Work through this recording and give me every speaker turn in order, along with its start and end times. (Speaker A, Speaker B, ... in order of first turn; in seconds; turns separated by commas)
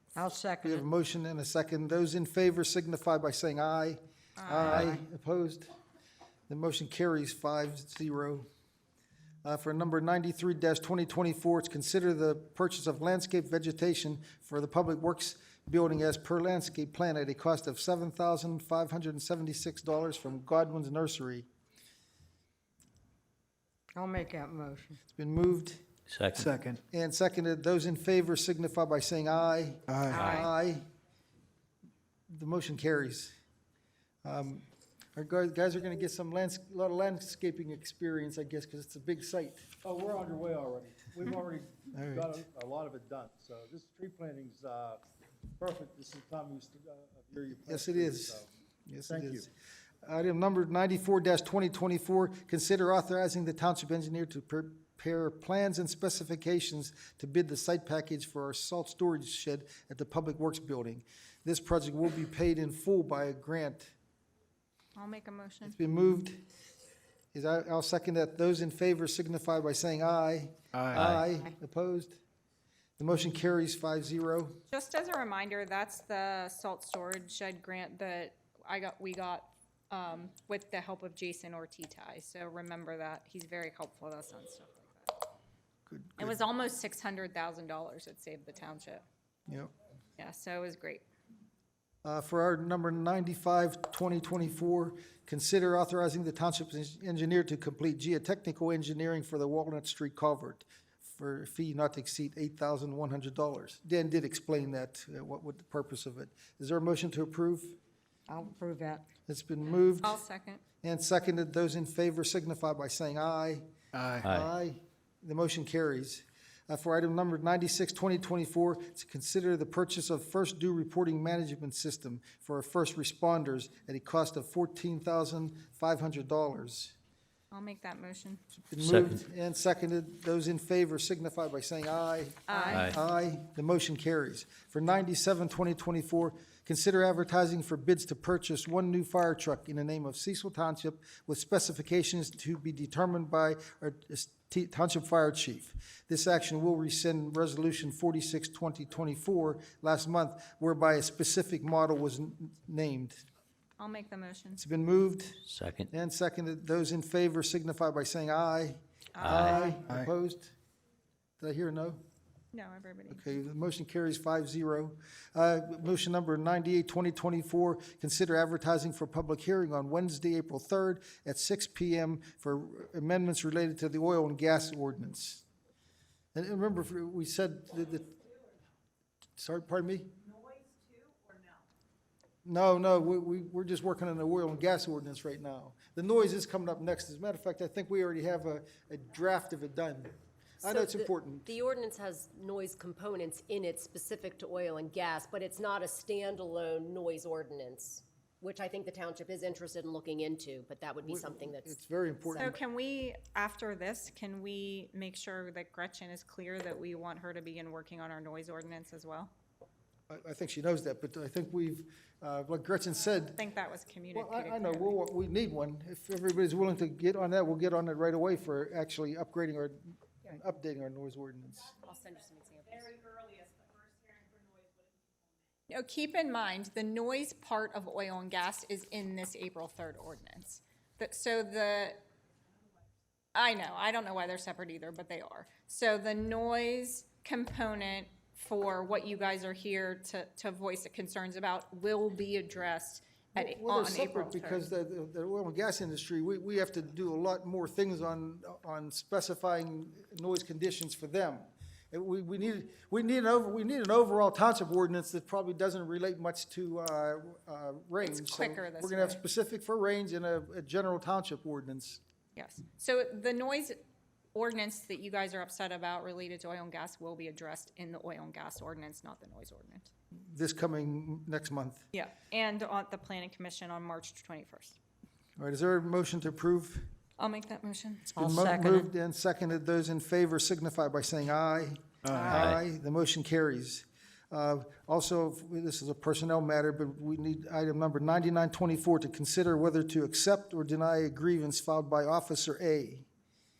Speaker A: 0.1-0.8, Speaker B: 0.6-5.7, Speaker C: 4.4-4.9, Speaker B: 6.5-8.5, Speaker B: 9.4-21.5, Speaker A: 23.9-25.0, Speaker B: 25.1-25.8, Speaker D: 26.1-26.5, Speaker E: 26.4-26.8, Speaker B: 26.9-30.8, Speaker E: 29.9-30.3, Speaker A: 30.1-30.5, Speaker B: 32.3-33.3, Speaker B: 34.2-39.7, Speaker F: 39.8-45.0, Speaker B: 41.9-42.4, Speaker F: 45.6-48.5, Speaker B: 47.6-49.5, Speaker F: 49.1-49.5, Speaker B: 50.0-63.9, Speaker C: 65.0-65.7, Speaker B: 65.6-66.4, Speaker B: 67.3-72.2, Speaker E: 70.7-71.0, Speaker D: 70.9-71.3, Speaker B: 73.0-74.6, Speaker C: 74.7-85.2, Speaker B: 85.9-86.3, Speaker C: 86.2-89.0, Speaker B: 89.5-89.7, Speaker C: 90.2-91.0, Speaker B: 92.0-107.8, Speaker A: 108.3-109.0, Speaker B: 109.3-110.2, Speaker C: 110.0-110.6, Speaker B: 110.8-113.7, Speaker E: 113.9-114.3, Speaker D: 114.2-114.5, Speaker B: 114.2-127.0, Speaker C: 127.5-128.4, Speaker B: 128.7-153.2, Speaker D: 128.8-129.2, Speaker C: 132.5-132.9, Speaker D: 132.7-133.0, Speaker C: 153.8-154.6, Speaker B: 154.6-160.5, Speaker D: 155.5-155.9, Speaker C: 159.1-159.8, Speaker D: 159.2-159.7, Speaker B: 161.4-162.0, Speaker C: 162.5-163.2, Speaker B: 163.1-175.4, Speaker B: 176.3-178.3, Speaker B: 179.4-180.1, Speaker B: 182.4-191.5, Speaker G: 190.6-201.7, Speaker B: 201.0-202.6, Speaker G: 202.3-202.6, Speaker C: 202.4-209.3, Speaker B: 210.1-213.4, Speaker C: 213.3-215.0, Speaker B: 214.1-221.7, Speaker G: 221.8-223.0, Speaker C: 225.7-232.0, Speaker C: 233.3-244.6, Speaker B: 243.3-262.0, Speaker C: 258.0-259.2, Speaker C: 262.3-263.8, Speaker C: 264.3-269.9, Speaker B: 270.3-271.9, Speaker C: 271.9-274.8, Speaker B: 275.4-276.9, Speaker C: 277.2-278.1, Speaker B: 278.1-293.1, Speaker A: 278.1-278.9, Speaker E: 282.0-282.3, Speaker D: 282.3-282.6